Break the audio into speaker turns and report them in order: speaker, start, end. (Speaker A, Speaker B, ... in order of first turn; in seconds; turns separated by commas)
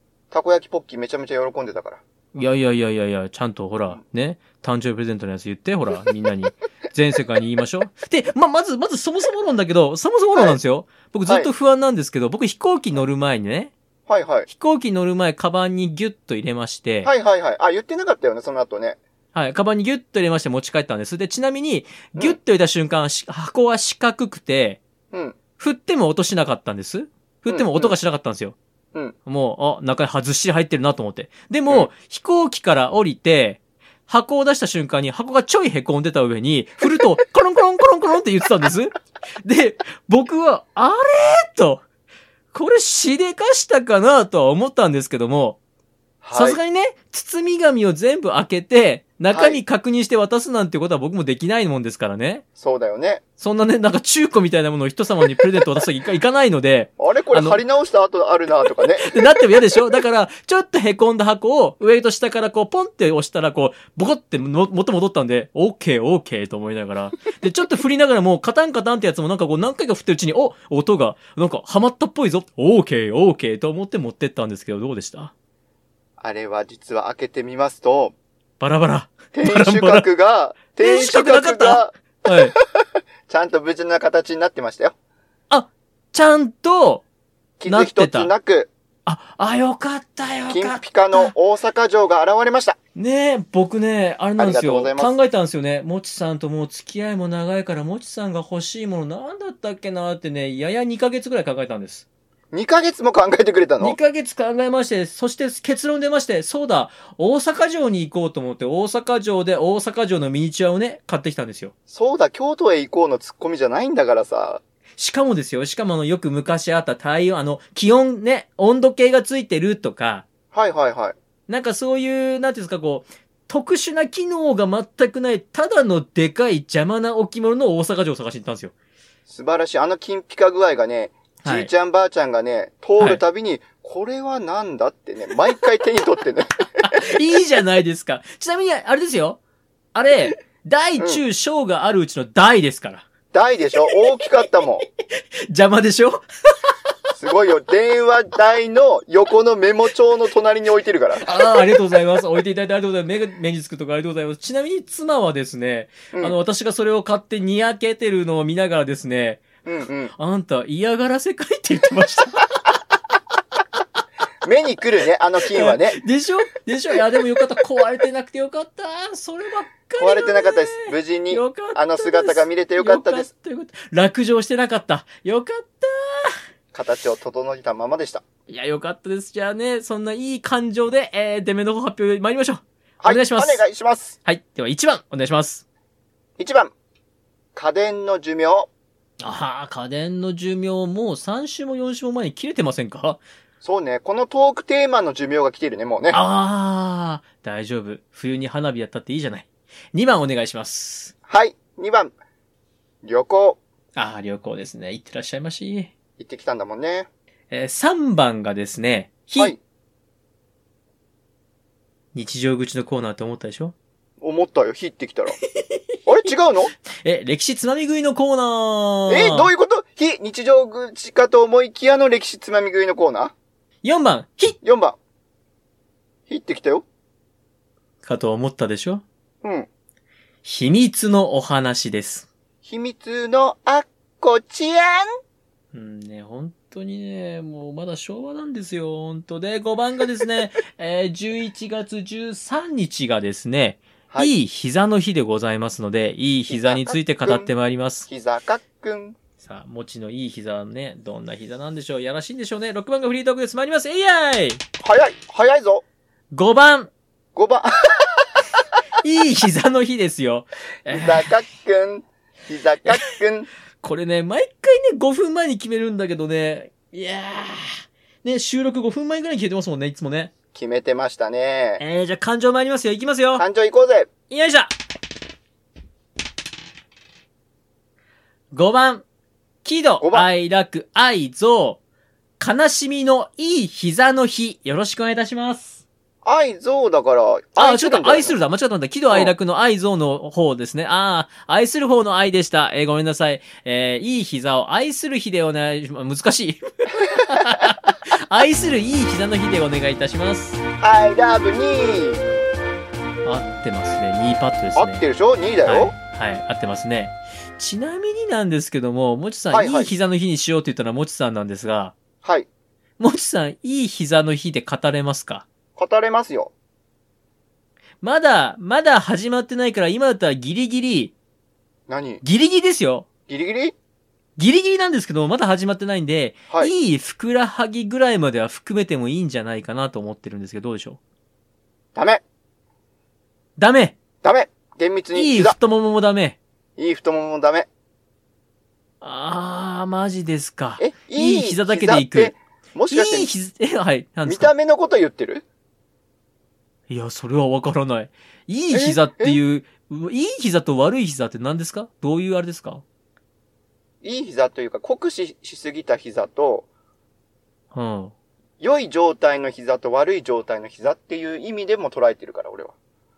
Speaker A: 0.3-2.0, Speaker B: 2.4-13.7, Speaker A: 14.1-14.5, Speaker B: 14.5-17.1, Speaker A: 17.0-19.0, Speaker B: 19.3-24.8, Speaker A: 25.1-25.4, Speaker B: 25.6-28.6, Speaker A: 27.5-27.9, Speaker B: 29.3-41.8, Speaker B: 42.5-45.6, Speaker A: 46.2-46.6, Speaker B: 46.3-52.5, Speaker A: 49.3-49.6, Speaker A: 52.6-53.2, Speaker B: 53.4-57.6, Speaker A: 57.0-59.4, Speaker B: 59.0-75.3, Speaker A: 76.2-78.1, Speaker B: 78.6-80.1, Speaker A: 79.3-85.0, Speaker B: 80.8-82.5, Speaker B: 85.5-87.0, Speaker A: 87.6-88.7, Speaker B: 87.7-88.3, Speaker B: 89.1-91.3, Speaker A: 90.5-92.8, Speaker B: 93.0-102.1, Speaker A: 94.4-95.1, Speaker A: 102.5-104.0, Speaker B: 103.8-111.7, Speaker A: 111.9-114.6, Speaker B: 115.0-120.3, Speaker A: 120.5-121.2, Speaker B: 121.5-128.7, Speaker A: 129.3-136.7, Speaker B: 131.4-131.7, Speaker B: 136.8-139.4, Speaker B: 139.9-143.1, Speaker A: 143.3-144.8, Speaker B: 145.0-146.7, Speaker A: 147.2-151.3, Speaker B: 151.2-159.5, Speaker A: 159.6-160.1, Speaker B: 160.1-162.5, Speaker A: 164.4-166.0, Speaker B: 165.5-176.4, Speaker A: 170.0-173.3, Speaker A: 176.7-178.2, Speaker B: 178.5-183.6, Speaker A: 183.0-184.2, Speaker B: 184.2-185.6, Speaker A: 186.4-186.7, Speaker A: 187.6-188.7, Speaker B: 189.2-193.2, Speaker A: 193.6-196.2, Speaker B: 196.1-201.1, Speaker A: 201.3-202.1, Speaker A: 203.0-203.6, Speaker B: 204.0-205.9, Speaker A: 206.2-207.1, Speaker B: 207.5-209.6, Speaker B: 212.1-213.7, Speaker A: 214.2-215.4, Speaker A: 216.1-216.7, Speaker B: 217.0-219.5, Speaker A: 219.1-223.3, Speaker B: 223.8-224.6, Speaker A: 224.6-225.0, Speaker A: 226.3-226.8, Speaker B: 228.0-229.0, Speaker A: 229.4-229.7, Speaker B: 230.4-232.3, Speaker A: 232.6-235.1, Speaker B: 235.7-248.1, Speaker A: 246.5-247.5, Speaker A: 248.1-249.2, Speaker B: 249.4-254.6, Speaker A: 254.8-255.8, Speaker B: 256.3-256.9, Speaker A: 257.4-258.4, Speaker B: 259.0-261.3, Speaker A: 260.9-263.5, Speaker B: 263.8-270.3, Speaker A: 270.5-271.8, Speaker B: 271.8-273.4, Speaker A: 273.4-274.1, Speaker B: 274.3-274.7, Speaker B: 278.5-279.0, Speaker B: 279.6-281.8, Speaker A: 280.0-280.3, Speaker B: 282.4-285.8, Speaker A: 286.2-288.4, Speaker B: 287.6-300.6, Speaker A: 300.8-302.2, Speaker B: 303.2-305.0, Speaker A: 304.8-305.9, Speaker B: 305.6-312.0, Speaker A: 309.5-309.9, Speaker A: 312.2-312.5, Speaker B: 313.0-315.5, Speaker A: 315.8-316.5, Speaker B: 318.0-321.1, Speaker A: 321.9-322.2, Speaker B: 322.2-323.1, Speaker A: 323.3-323.8, Speaker B: 324.4-331.0, Speaker A: 331.9-332.2, Speaker B: 333.6-334.0, Speaker A: 334.2-335.6, Speaker B: 335.1-336.4, Speaker A: 336.8-337.7, Speaker B: 339.0-342.4, Speaker A: 340.8-343.3, Speaker B: 342.9-344.5, Speaker A: 344.2-345.4, Speaker B: 346.9-352.8, Speaker A: 348.7-349.4, Speaker A: 354.0-356.7, Speaker B: 357.7-358.1, Speaker A: 358.6-362.7